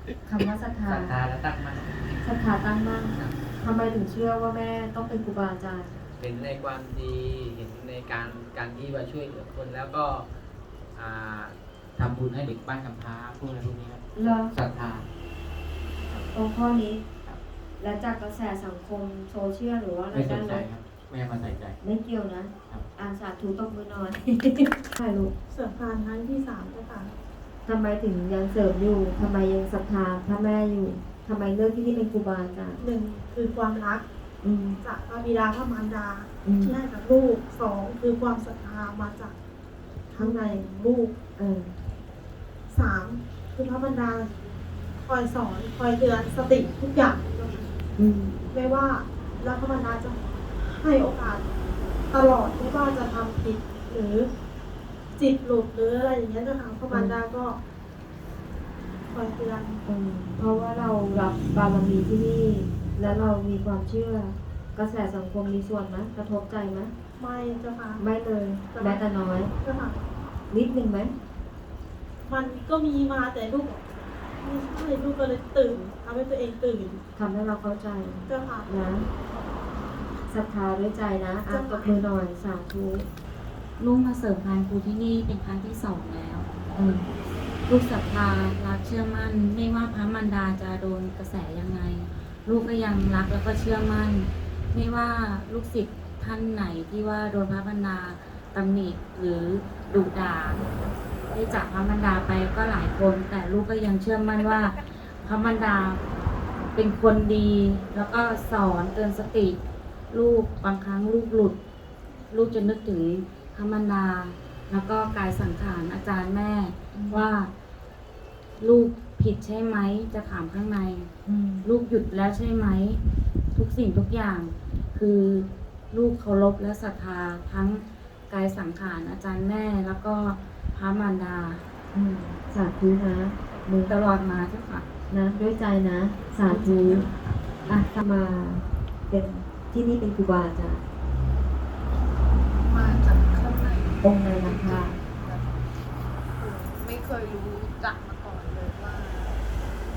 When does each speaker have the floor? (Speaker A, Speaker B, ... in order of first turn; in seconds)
Speaker A: 0.3-1.1, 2.2-6.0, 14.2-14.5, 16.3-17.0, 17.8-20.6, 21.8-25.3, 27.6-32.8, 34.4-34.8, 36.4-36.8, 40.2-40.7, 41.4-41.7, 48.0-48.4, 56.9-57.2, 59.9-66.9, 68.0-69.5, 70.5-71.1, 77.1-79.0, 80.3-83.1, 86.7-87.1, 116.9-117.3, 121.2-121.7, 131.9-133.9, 135.1-137.1, 137.7-140.8, 144.0-145.0
Speaker B: 0.4-2.3, 6.2-10.3, 10.9-15.1, 20.1-21.8
Speaker C: 25.5-27.1, 32.8-34.0, 34.8-39.4, 40.1-41.1, 42.7-44.3, 45.0-47.6, 48.5-51.5, 52.1-54.3, 55.1-57.6, 59.1-59.8, 63.0-63.4, 67.2-68.0, 68.7-69.0, 69.6-70.0, 72.2-77.0, 78.3-78.9, 81.5-82.0
Speaker D: 83.8-86.5, 87.7-100.6, 101.3-106.0, 106.7-109.6, 110.1-111.5, 112.3-117.5, 118.6-121.1, 121.6-123.0, 123.5-131.6, 133.8-134.8
Speaker E: 142.6-145.6, 146.4-149.4